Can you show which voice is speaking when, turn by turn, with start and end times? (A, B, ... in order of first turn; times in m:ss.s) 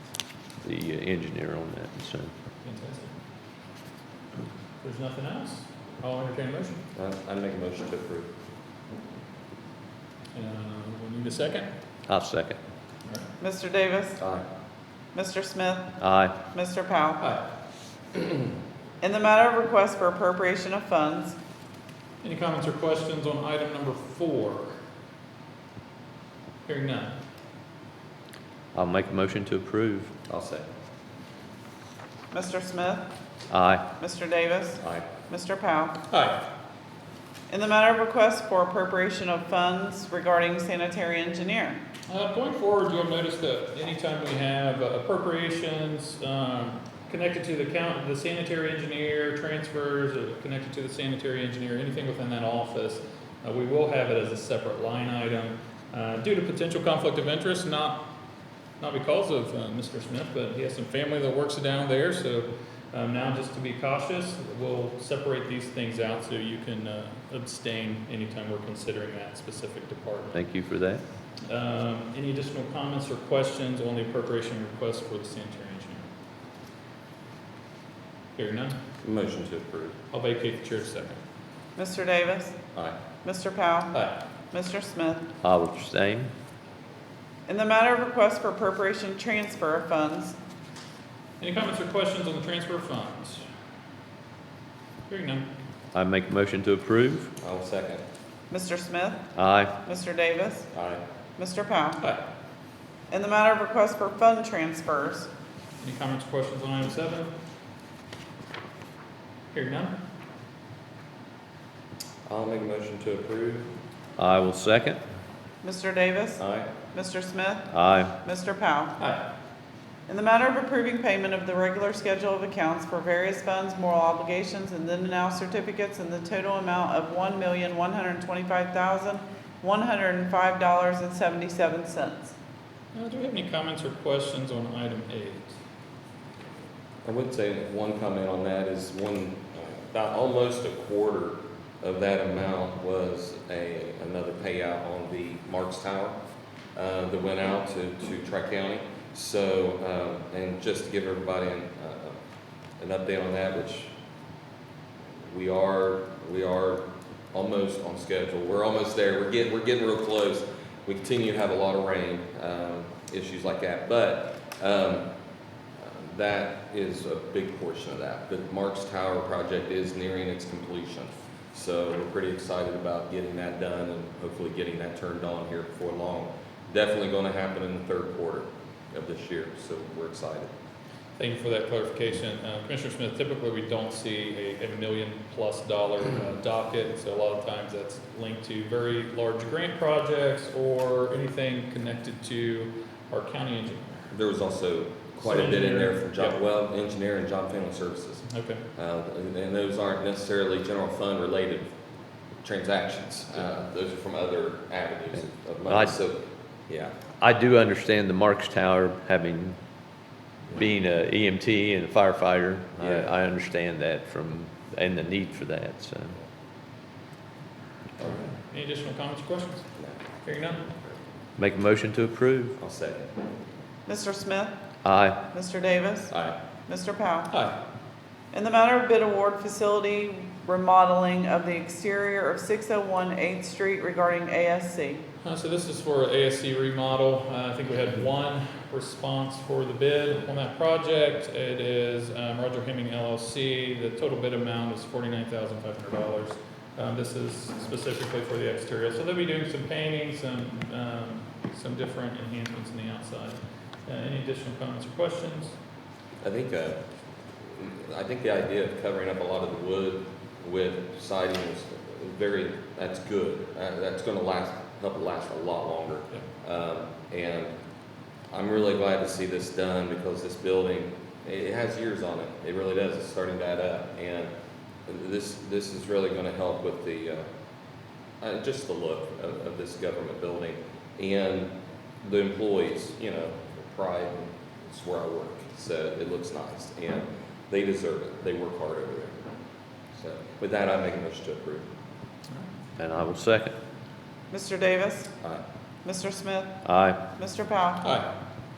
0:00.6-0:02.3 A
0:02.6-0:03.1 B
0:04.8-0:06.8 B
0:06.9-0:08.3 C
0:10.3-0:11.7 B
0:12.1-0:12.6 A
0:13.4-0:14.2 D
0:14.2-0:14.4 C
0:15.1-0:16.0 D
0:16.0-0:16.4 A
0:16.5-0:17.2 D
0:17.2-0:17.4 B
0:19.0-0:21.4 D
0:22.2-0:24.8 B
0:26.6-0:27.1 B
0:28.7-0:30.1 A
0:30.3-0:30.7 C
0:32.3-0:33.0 D
0:33.5-0:33.8 A
0:34.0-0:36.0 D
0:34.8-0:35.1 C
0:36.1-0:36.4 B
0:37.5-0:41.8 D
0:42.1-0:58.1 B
0:58.8-1:10.4 B
1:10.3-1:11.0 A
1:11.4-1:16.1 B
1:18.4-1:18.8 B
1:19.0-1:20.0 C
1:20.1-1:21.2 B
1:21.8-1:22.6 D
1:23.2-1:23.9 D
1:23.9-1:24.2 B
1:24.5-1:25.2 D
1:25.4-1:26.3 A
1:27.5-1:30.4 D
1:31.4-1:33.4 B
1:35.1-1:35.5 B
1:35.9-1:37.3 A
1:37.4-1:38.0 C
1:38.5-1:39.3 D
1:39.3-1:39.7 A
1:39.8-1:40.7 D
1:40.7-1:41.0 C
1:41.4-1:42.0 D
1:43.1-1:45.3 D
1:45.8-1:47.3 B
1:49.5-1:49.9 B
1:52.3-1:53.7 C
1:54.2-1:55.0 A
1:55.6-1:56.4 D
1:56.4-1:56.7 C
1:56.9-1:59.0 D
1:57.7-1:58.1 A
1:59.0-1:59.3 B
2:00.1-2:12.3 D
2:12.9-2:15.5 B
2:17.0-2:26.2 C
2:26.8-2:32.2 C
2:32.8-2:33.9 C
2:35.2-2:45.0 C
2:45.8-3:00.5 C
3:01.2-3:14.0 B
3:14.1-3:21.7 C
3:15.2-3:16.4 B
3:18.3-3:18.6 B
3:22.4-3:26.9 C
3:25.7-3:26.0 A
3:27.2-3:29.6 A
3:30.5-3:36.2 A
3:32.8-3:33.1 C
3:38.4-3:39.6 B
3:40.2-3:40.6 B
3:41.4-3:42.6 A
3:42.6-3:43.1 C
3:43.8-3:44.5 D
3:44.8-3:45.2 A
3:45.3-3:46.1 D
3:46.1-3:46.4 C
3:46.6-3:47.3 D
3:47.3-3:47.6 B
3:48.3-3:55.0 D
3:55.2-4:15.5 B
4:16.2-4:16.8 C
4:17.5-4:27.5 C
4:28.3-4:34.3 C
4:34.9-4:37.3 C
4:38.2-4:41.5 C
4:42.0-4:49.2 C
4:49.9-4:51.6 C
4:52.8-4:53.5 A
4:54.3-4:55.1 D
4:55.8-4:56.6 D
4:56.6-4:57.0 A
4:57.1-4:57.9 D
4:57.8-4:58.1 B